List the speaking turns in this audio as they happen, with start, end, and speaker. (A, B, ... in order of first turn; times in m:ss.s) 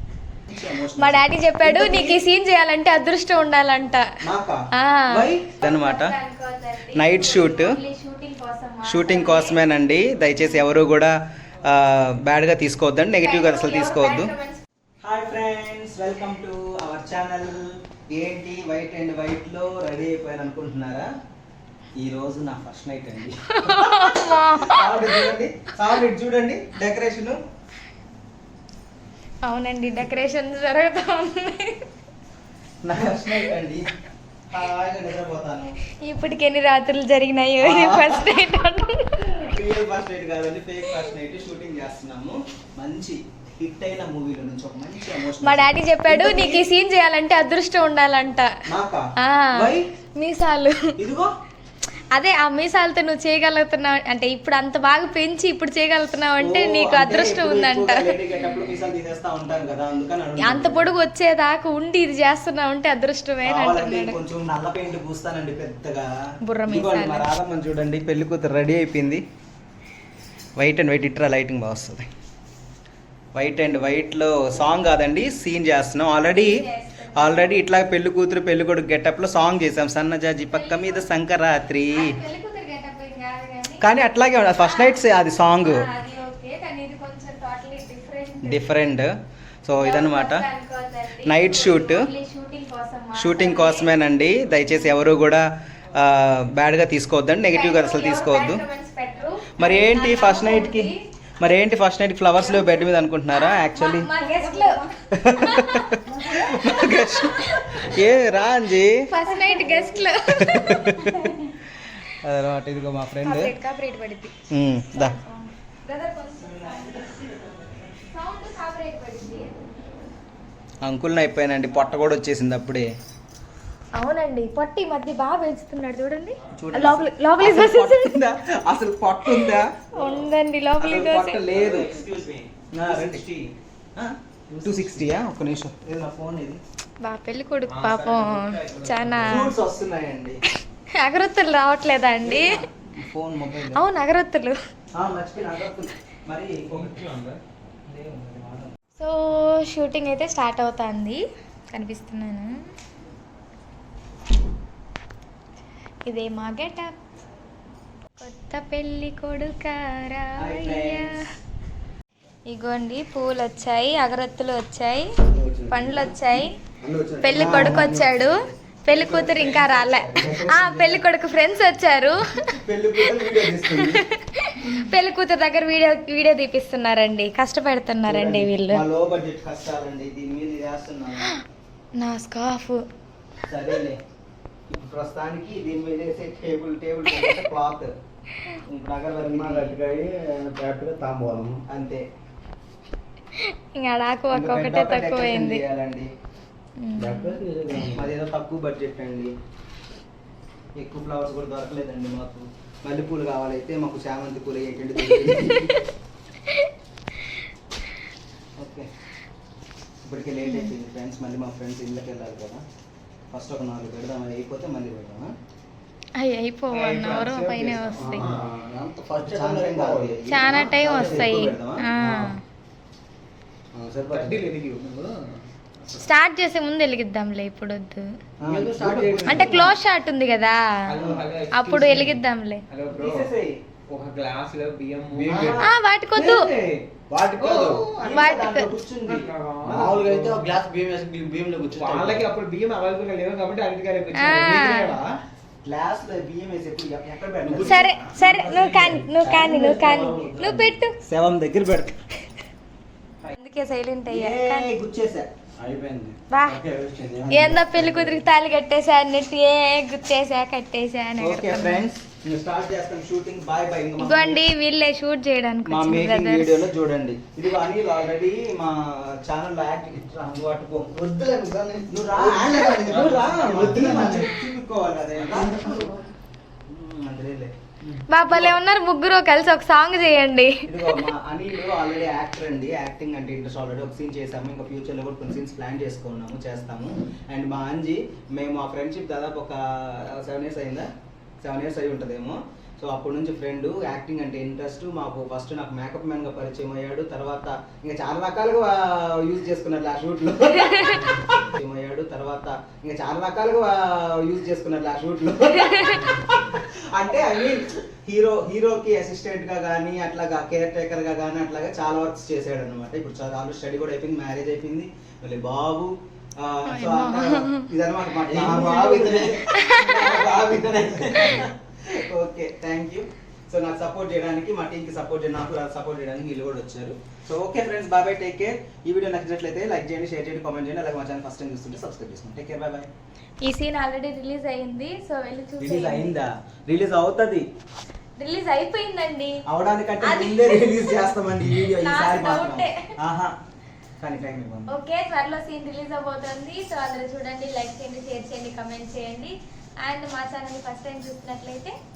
0:00.5-0:02.2 A
0:01.0-0:04.1 B
0:04.2-0:06.1 A
0:04.8-0:09.8 B
0:06.9-0:07.8 A
0:08.8-0:14.3 A
0:10.3-0:10.7 B
0:13.2-0:14.6 B
0:15.0-0:21.1 A
0:22.0-0:27.4 A
0:23.5-0:25.3 B
0:29.4-0:31.8 B
0:32.8-0:33.9 A
0:34.5-0:35.8 A
0:36.0-0:39.3 B
0:37.6-0:38.4 A
0:39.4-0:46.7 A
0:45.4-0:48.5 B
0:48.7-0:49.9 A
0:49.2-0:50.9 B
0:51.0-0:51.3 A
0:52.1-0:58.7 B
0:56.4-1:00.9 A
1:00.4-1:04.2 B
1:03.4-1:06.1 A
1:06.4-1:07.3 B
1:06.7-1:09.2 A
1:10.6-1:12.0 A
1:13.3-1:16.6 A
1:16.2-1:17.5 B
1:17.1-1:22.2 A
1:20.5-1:21.1 B
1:21.9-1:28.7 B
1:23.8-1:25.9 A
1:28.4-1:29.1 A
1:29.6-1:30.4 A
1:29.8-1:35.0 B
1:31.2-1:32.1 A
1:33.1-1:38.6 A
1:37.5-1:41.0 B
1:39.6-1:44.1 A
1:43.3-1:48.0 B
1:45.1-1:49.0 A
1:49.1-1:51.5 B
1:50.4-1:51.4 A
1:52.1-1:53.5 A
1:53.2-1:54.3 B
1:54.5-1:55.2 A
1:54.9-1:57.2 B
1:58.1-1:59.5 B
2:00.8-2:02.9 A
2:04.0-2:08.2 B
2:06.5-2:09.7 A
2:09.3-2:11.4 B
2:10.8-2:11.9 A
2:11.5-2:12.5 C
2:11.6-2:12.0 D
2:12.7-2:13.3 A
2:12.8-2:13.1 D
2:13.9-2:16.6 A
2:14.5-2:14.9 D
2:17.0-2:19.5 B
2:17.7-2:19.4 C
2:19.3-2:20.4 A
2:21.0-2:22.5 B
2:22.2-2:23.8 A
2:23.7-2:24.6 B
2:25.0-2:27.0 A
2:26.7-2:27.4 C
2:27.9-2:28.7 A
2:29.0-2:31.2 B
2:31.7-2:32.5 B
2:36.0-2:37.0 B
2:38.2-2:41.1 B
2:40.4-2:41.1 A
2:42.5-2:45.1 B
2:45.3-2:46.1 D
2:45.7-2:46.5 B
2:46.8-2:47.9 D
2:47.2-2:48.3 B
2:47.3-2:51.0 A
2:48.8-2:52.2 B
2:52.6-2:54.0 A
2:53.0-2:58.8 B
2:58.0-3:01.3 A
3:02.0-3:02.8 B
3:03.5-3:04.0 A
3:04.7-3:07.9 A
3:08.7-3:09.8 A
3:09.2-3:11.6 D
3:11.7-3:12.0 A
3:13.4-3:15.6 B
3:14.3-3:16.1 A
3:16.8-3:17.8 B
3:17.0-3:18.1 D
3:17.9-3:19.3 A
3:20.7-3:25.8 A
3:25.0-3:25.9 B
3:28.6-3:28.9 A
3:30.0-3:32.6 A
3:30.4-3:30.7 B
3:33.3-3:35.3 A
3:36.2-3:38.2 B
3:36.7-3:38.5 C
3:37.9-3:41.3 D
3:39.2-3:41.9 A
3:40.3-3:42.4 B
3:42.0-3:42.3 D
3:43.7-3:44.4 D
3:44.1-3:46.0 C
3:45.9-3:48.0 B
3:48.4-3:49.8 A
3:48.4-3:49.6 D
3:48.5-3:49.4 C
3:49.3-3:50.6 B
3:50.9-3:53.3 C
3:51.0-3:51.3 A
3:51.5-3:52.6 B
3:52.9-3:53.6 A
3:53.9-3:55.6 C
3:55.1-3:55.6 D
3:55.3-3:55.7 A
3:55.6-3:56.5 B
3:56.1-3:56.8 C
3:57.1-3:57.8 D
3:57.4-3:57.9 C
3:57.6-3:59.3 A
3:58.1-3:58.7 B
3:59.1-4:00.6 C
3:59.6-4:02.2 D
4:01.7-4:05.2 C
4:04.1-4:05.0 B
4:05.6-4:09.0 A
4:07.4-4:10.7 D
4:07.6-4:10.9 B
4:11.0-4:11.9 A
4:13.2-4:14.7 B
4:14.1-4:15.3 A
4:15.6-4:18.2 D
4:16.3-4:16.6 B
4:17.3-4:21.8 B
4:21.2-4:24.4 A
4:24.0-4:26.6 B
4:25.6-4:30.9 A
4:30.9-4:34.4 D
4:31.9-4:35.8 A
4:35.2-4:36.1 D
4:36.7-4:37.5 A
4:38.1-4:41.0 B
4:38.2-4:38.5 A
4:40.7-4:50.9 A
4:51.4-5:32.9 A
5:00.5-5:01.1 B
5:05.5-5:06.2 B
5:16.7-5:17.7 B
5:18.2-5:19.4 D
5:19.5-5:20.2 B
5:33.4-5:36.1 B
5:35.6-5:37.4 A
5:38.2-5:39.4 B
5:39.5-5:43.3 A
5:40.0-5:41.0 B
5:41.7-5:42.8 B
5:44.0-5:44.7 A
5:44.7-5:51.7 B